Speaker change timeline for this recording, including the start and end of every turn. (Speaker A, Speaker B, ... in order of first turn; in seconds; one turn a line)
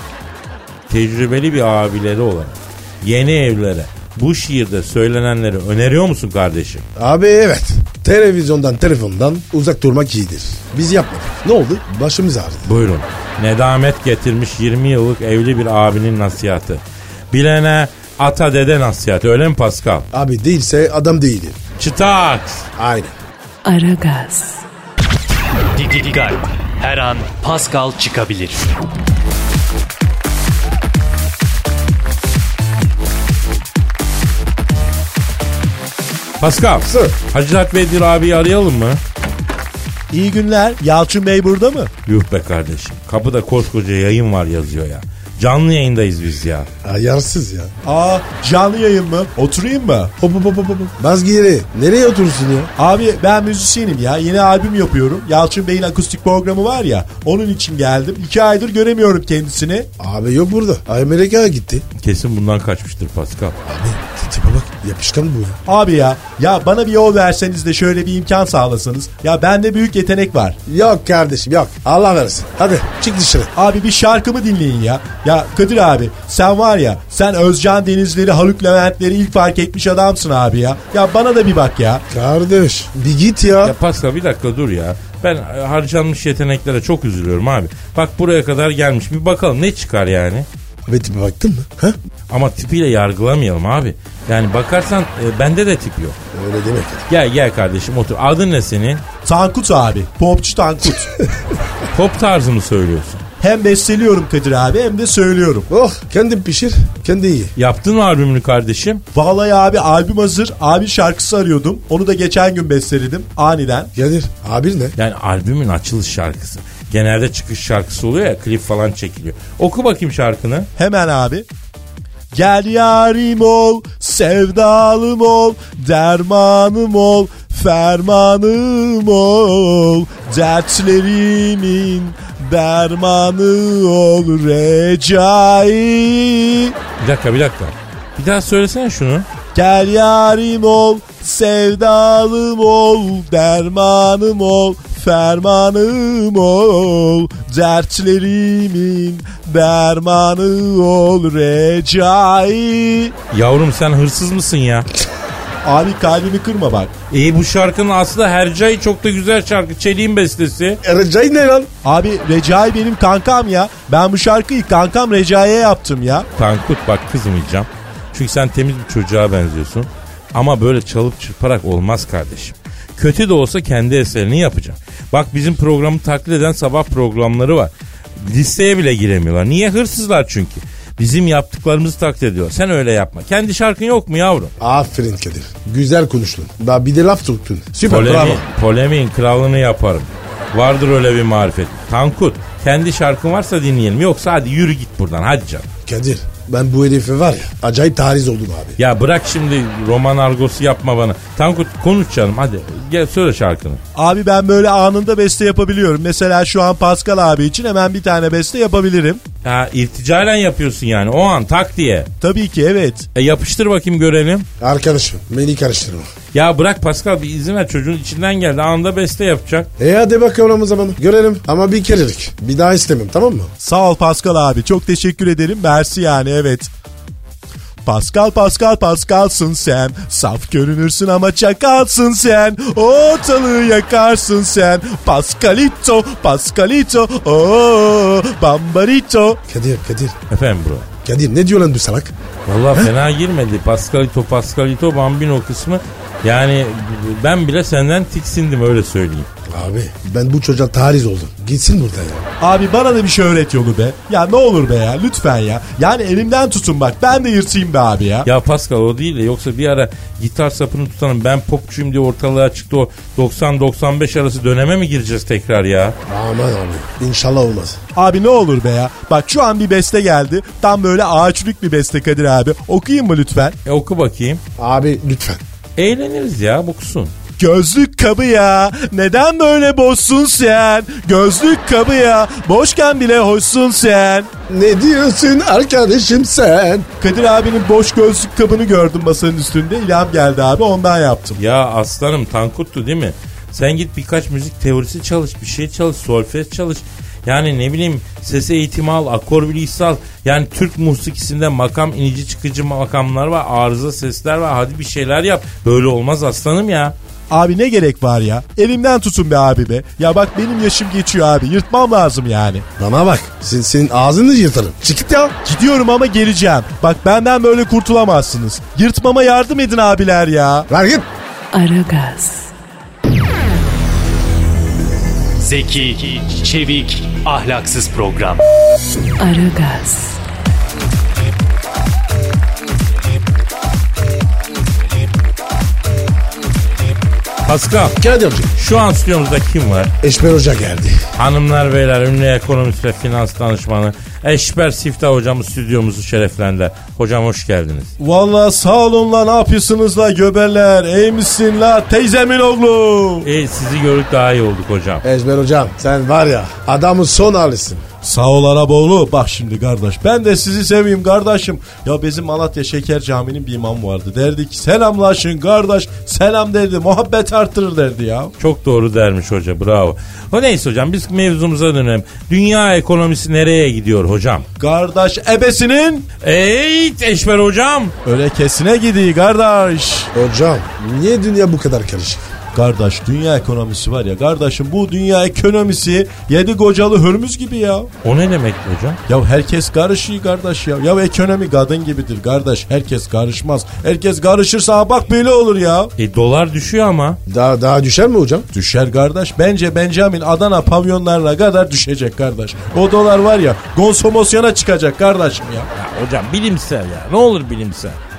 Speaker A: 0.9-6.8
Speaker B: 7.0-12.7
Speaker A: 12.7-20.1
Speaker B: 20.1-21.6
Speaker A: 21.8-22.7
Speaker B: 22.8-23.1
Speaker C: 23.6-24.6
Speaker D: 25.8-28.6
Speaker A: 36.4-39.0
Speaker B: 36.8-37.1
Speaker E: 40.1-41.9
Speaker A: 42.1-46.7
Speaker B: 46.8-47.7
Speaker E: 47.8-50.1
Speaker B: 50.2-52.7
Speaker E: 52.8-59.9
Speaker B: 60.0-61.9
Speaker A: 62.0-63.6
Speaker B: 63.6-65.6
Speaker E: 65.7-70.6
Speaker B: 70.7-73.5
Speaker E: 73.5-82.0
Speaker B: 82.1-83.8
Speaker A: 83.6-90.5
Speaker B: 90.9-92.0
Speaker A: 92.3-96.2
Speaker B: 96.3-97.1
Speaker A: 97.1-99.0
Speaker E: 99.2-101.1
Speaker A: 101.9-103.2
Speaker E: 103.4-105.7
Speaker B: 105.7-107.5
Speaker A: 107.6-109.0
Speaker E: 109.1-113.9
Speaker B: 114.0-115.0
Speaker A: 115.0-120.7
Speaker E: 120.8-121.5
Speaker E: 122.3-136.8
Speaker A: 137.0-139.3
Speaker E: 139.5-153.2
Speaker A: 153.3-154.9
Speaker E: 155.6-156.9
Speaker A: 157.1-160.8
Speaker B: 160.8-161.7
Speaker E: 161.8-166.3
Speaker A: 166.4-184.5
Speaker B: 184.6-188.5
Speaker A: 187.8-195.7
Speaker B: 195.9-198.8
Speaker A: 198.8-203.8
Speaker E: 203.9-209.2
Speaker A: 209.4-212.1
Speaker E: 212.2-213.1
Speaker A: 213.2-214.5
Speaker B: 214.6-216.1
Speaker A: 216.3-219.7
Speaker B: 219.8-223.5
Speaker E: 223.6-226.7
Speaker E: 227.8-239.4
Speaker B: 239.5-240.2
Speaker A: 240.3-240.9
Speaker B: 241.0-242.1
Speaker A: 242.5-249.3
Speaker B: 249.5-252.3
Speaker E: 252.4-258.3
Speaker A: 258.2-266.0
Speaker B: 266.1-267.8
Speaker E: 268.0-273.6
Speaker A: 273.6-274.4
Speaker B: 274.6-275.4
Speaker A: 275.8-277.1
Speaker E: 277.4-284.3
Speaker B: 284.5-286.9
Speaker E: 287.0-291.4
Speaker A: 291.4-306.9
Speaker E: 307.3-312.7
Speaker B: 312.8-315.4
Speaker E: 315.4-320.7
Speaker B: 320.7-321.1
Speaker C: 321.5-322.5
Speaker D: 325.4-328.4
Speaker C: 329.2-330.2
Speaker A: 337.4-338.0
Speaker B: 338.0-338.5
Speaker A: 338.6-339.9
Speaker B: 340.0-341.0
Speaker A: 341.2-347.9
Speaker E: 348.0-353.3
Speaker A: 353.2-355.0
Speaker B: 355.0-357.9
Speaker E: 358.0-368.3
Speaker A: 368.4-374.5
Speaker E: 374.6-376.1
Speaker A: 376.2-377.9
Speaker E: 378.1-380.1
Speaker B: 380.1-382.3
Speaker E: 382.6-387.9
Speaker A: 388.0-389.0
Speaker E: 389.1-395.9
Speaker A: 396.0-397.2
Speaker B: 397.3-398.5
Speaker E: 398.5-405.7
Speaker A: 405.7-408.0